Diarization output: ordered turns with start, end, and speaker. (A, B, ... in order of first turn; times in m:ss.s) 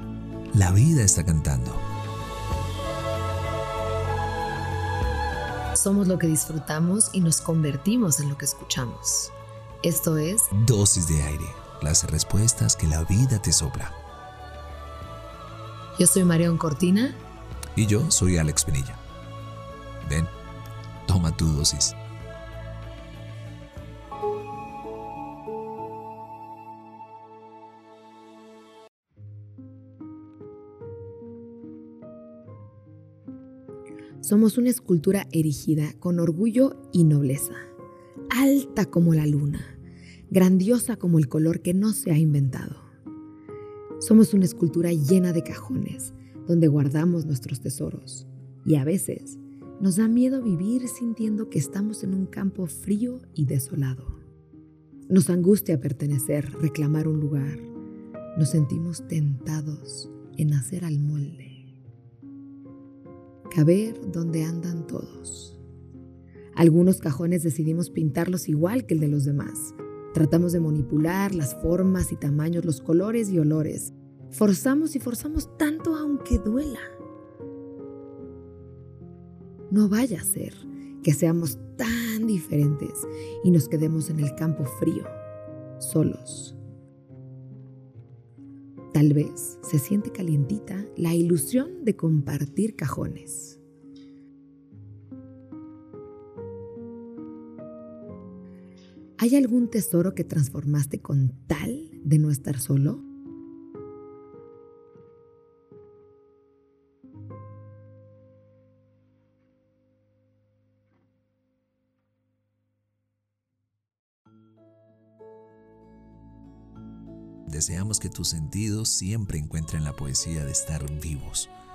0:00.5-0:01.8 A
0:05.7-0:10.5 B
0:10.6-0:13.9 A
0:16.0-0:17.2 B
0:17.8-0:19.0 A
0:20.0-0:20.3 A
0:21.1-0:21.9 A
0:34.2-0:37.6 B
0:38.3-0:39.8 B
0:40.3-0:42.8 B
0:44.0-0:54.2 B
0:55.1-0:57.7 B
0:58.4-1:01.6 B
1:03.5-1:05.6 B
1:06.6-1:16.9 B
1:19.7-1:25.2 B
1:25.8-1:26.6 B
1:28.9-1:33.6 B
1:39.2-1:43.0 B
1:57.5-2:01.5 A